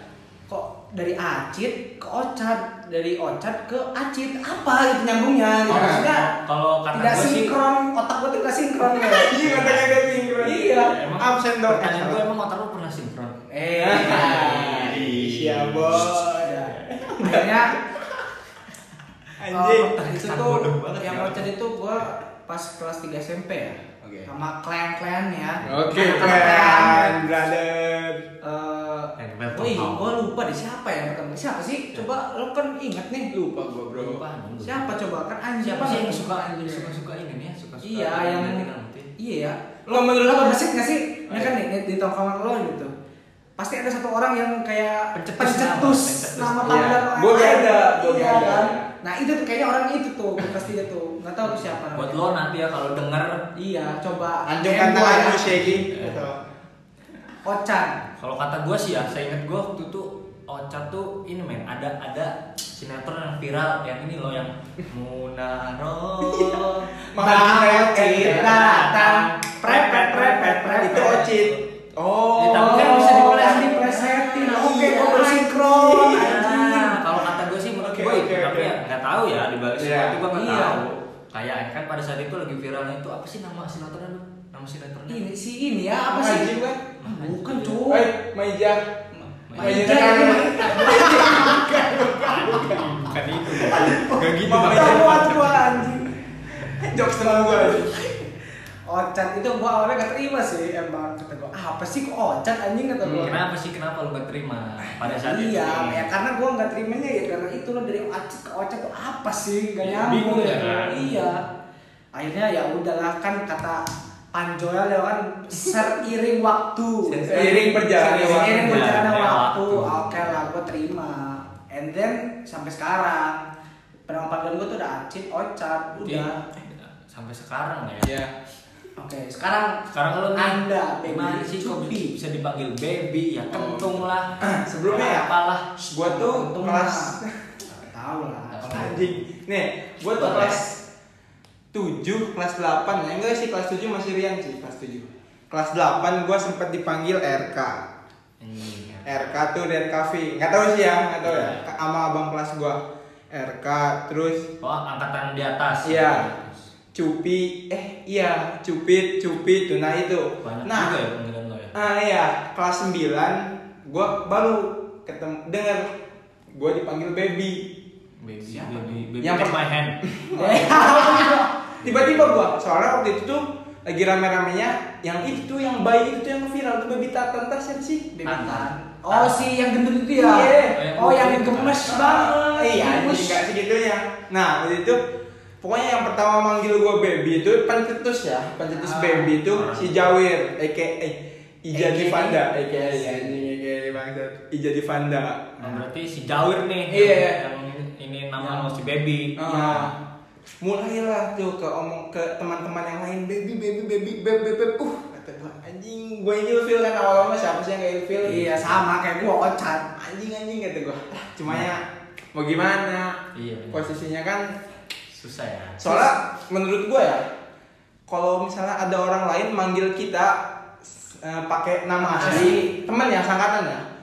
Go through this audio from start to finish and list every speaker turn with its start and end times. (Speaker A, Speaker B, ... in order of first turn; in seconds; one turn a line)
Speaker A: 0.5-6.3
Speaker B: 5.7-6.0
Speaker C: 5.7-7.5
Speaker A: 6.9-9.4
Speaker B: 8.8-12.2
Speaker C: 9.3-13.4
Speaker A: 10.4-11.0
Speaker A: 13.5-14.9
Speaker B: 13.8-18.2
Speaker C: 13.9-16.3
Speaker A: 16.3-17.8
Speaker B: 19.4-19.9
Speaker A: 19.5-27.2
Speaker C: 20.0-21.5
Speaker B: 24.0-24.3
Speaker C: 25.6-27.1
Speaker B: 25.6-28.2
Speaker A: 28.4-33.3
Speaker C: 29.2-30.1
Speaker B: 33.3-34.2
Speaker C: 33.9-34.9
Speaker A: 34.6-36.9
Speaker C: 35.6-39.1
Speaker A: 37.8-38.6
Speaker A: 39.2-42.9
Speaker B: 39.9-40.6
Speaker B: 41.3-41.5
Speaker A: 43.6-52.2
Speaker C: 45.1-47.0
Speaker B: 46.6-48.9
Speaker C: 51.9-53.4
Speaker A: 53.5-55.6
Speaker B: 54.5-56.4
Speaker C: 55.4-56.3
Speaker A: 57.4-58.0
Speaker C: 58.2-66.9
Speaker B: 66.2-68.9
Speaker A: 67.2-71.3
Speaker C: 68.2-69.4
Speaker B: 69.6-76.4
Speaker C: 70.9-71.6
Speaker C: 72.3-75.4
Speaker A: 72.4-77.0
Speaker C: 76.1-85.2
Speaker B: 77.8-78.8
Speaker B: 79.8-80.2
Speaker A: 80.3-80.8
Speaker A: 85.1-88.1
Speaker B: 86.1-86.9
Speaker C: 87.0-87.8
Speaker B: 87.9-88.8
Speaker A: 89.1-92.8
Speaker C: 89.5-90.3
Speaker B: 89.5-92.9
Speaker C: 92.0-95.9
Speaker A: 93.6-96.0
Speaker B: 93.7-98.0
Speaker A: 97.1-98.2
Speaker A: 98.9-103.4
Speaker B: 103.0-103.3
Speaker C: 103.1-106.1
Speaker A: 105.0-111.4
Speaker C: 109.8-111.3
Speaker A: 112.1-113.8
Speaker A: 114.3-123.4
Speaker C: 117.1-120.4
Speaker B: 117.3-119.0
Speaker A: 124.1-126.4
Speaker C: 126.0-128.2
Speaker B: 128.0-128.3
Speaker A: 129.0-132.1
Speaker C: 129.9-135.7
Speaker B: 133.5-135.3
Speaker B: 135.9-137.6
Speaker A: 136.0-137.2
Speaker A: 137.7-139.1
Speaker C: 138.5-139.1
Speaker B: 138.7-140.8
Speaker C: 140.2-140.6
Speaker B: 141.7-147.8
Speaker C: 148.4-149.2
Speaker B: 149.0-152.8
Speaker C: 151.2-151.7
Speaker B: 153.3-154.5
Speaker C: 154.6-156.7
Speaker B: 155.8-156.3
Speaker B: 156.9-160.9
Speaker C: 160.4-161.7
Speaker B: 161.7-165.9
Speaker B: 166.5-167.7
Speaker C: 168.2-170.0
Speaker A: 168.5-168.8
Speaker B: 169.2-178.2
Speaker A: 170.3-171.5
Speaker C: 171.8-172.4
Speaker A: 178.1-183.4
Speaker C: 178.2-179.5
Speaker B: 180.1-180.8
Speaker C: 180.4-182.2
Speaker B: 181.9-185.0
Speaker B: 185.6-195.6
Speaker A: 188.7-189.3
Speaker C: 189.5-190.1
Speaker A: 191.7-193.3
Speaker C: 195.6-199.9
Speaker B: 196.9-197.4
Speaker A: 198.4-198.7
Speaker B: 199.4-199.9
Speaker B: 200.6-208.5
Speaker A: 208.2-209.9
Speaker C: 208.2-208.8
Speaker B: 209.9-213.2
Speaker C: 213.3-213.9
Speaker B: 213.7-214.5
Speaker C: 215.1-216.0
Speaker B: 215.8-217.2
Speaker B: 218.1-223.8
Speaker A: 222.0-222.7
Speaker C: 222.2-222.5